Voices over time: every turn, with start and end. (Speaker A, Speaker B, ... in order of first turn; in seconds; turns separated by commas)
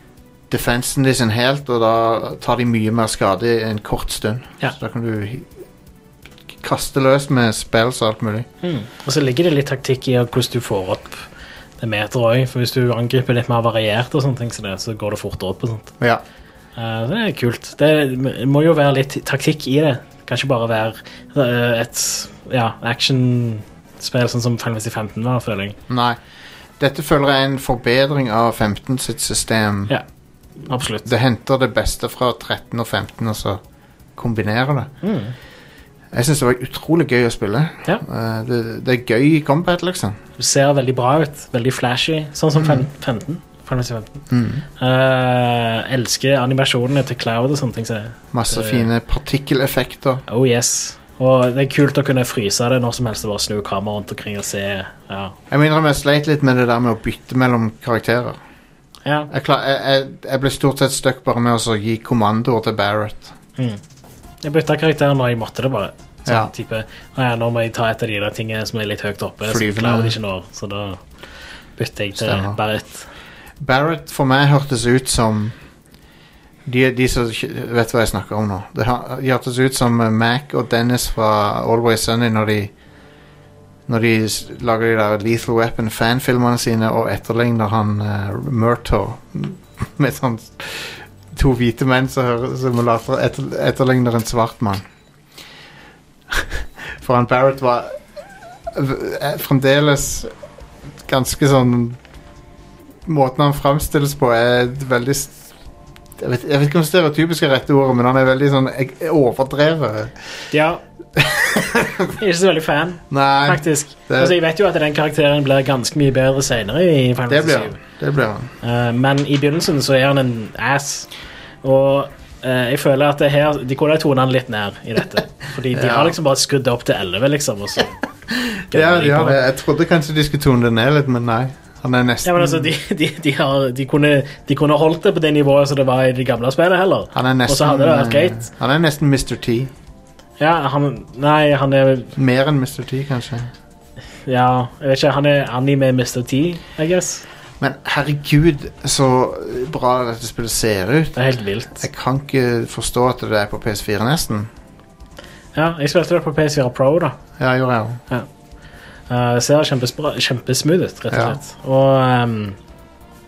Speaker A: 0.5-5.5, Speaker A: 6.6-8.5, Speaker B: 8.6-11.2, Speaker B: 11.8-15.9, Speaker B: 16.8-25.8, Speaker A: 25.9-26.2, Speaker A: 26.8-29.9, Speaker B: 30.6-31.1, Speaker A: 31.0-33.6, Speaker A: 34.2-34.9, Speaker B: 35.0-35.4, Speaker A: 36.1-40.2, Speaker B: 40.4-44.2, Speaker A: 42.5-42.9, Speaker A: 44.3-44.6, Speaker B: 44.8-48.9, Speaker A: 48.3-50.2, Speaker B: 50.3-55.4, Speaker A: 55.5-58.4, Speaker B: 59.0-59.3, Speaker A: 59.3-63.3, Speaker B: 64.4-71.0, Speaker A: 66.3-66.5, Speaker A: 69.5-70.2, Speaker B: 71.8-73.1, Speaker A: 72.2-72.6, Speaker A: 73.6-75.6, Speaker A: 76.7-82.7, Speaker A: 83.9-94.8, Speaker A: 96.3-98.0, Speaker A: 98.7-100.3, Speaker A: 101.1-102.0, Speaker A: 103.1-105.4, Speaker A: 106.2-110.2, Speaker B: 110.5-110.8, Speaker A: 111.2-112.2, Speaker B: 112.2-117.8, Speaker A: 113.1-114.4, Speaker A: 117.3-118.5, Speaker B: 118.6-121.1, Speaker B: 121.6-128.0, Speaker A: 125.7-126.2, Speaker A: 128.3-132.7, Speaker B: 128.7-129.4, Speaker B: 132.2-138.5, Speaker A: 137.1-139.7, Speaker B: 140.4-142.1, Speaker A: 142.2-143.5, Speaker B: 144.3-147.2, Speaker A: 147.6-151.3, Speaker B: 151.2-151.9, Speaker A: 151.8-154.5, Speaker B: 155.6-157.2, Speaker A: 157.4-158.0, Speaker B: 159.1-162.6, Speaker A: 161.1-161.4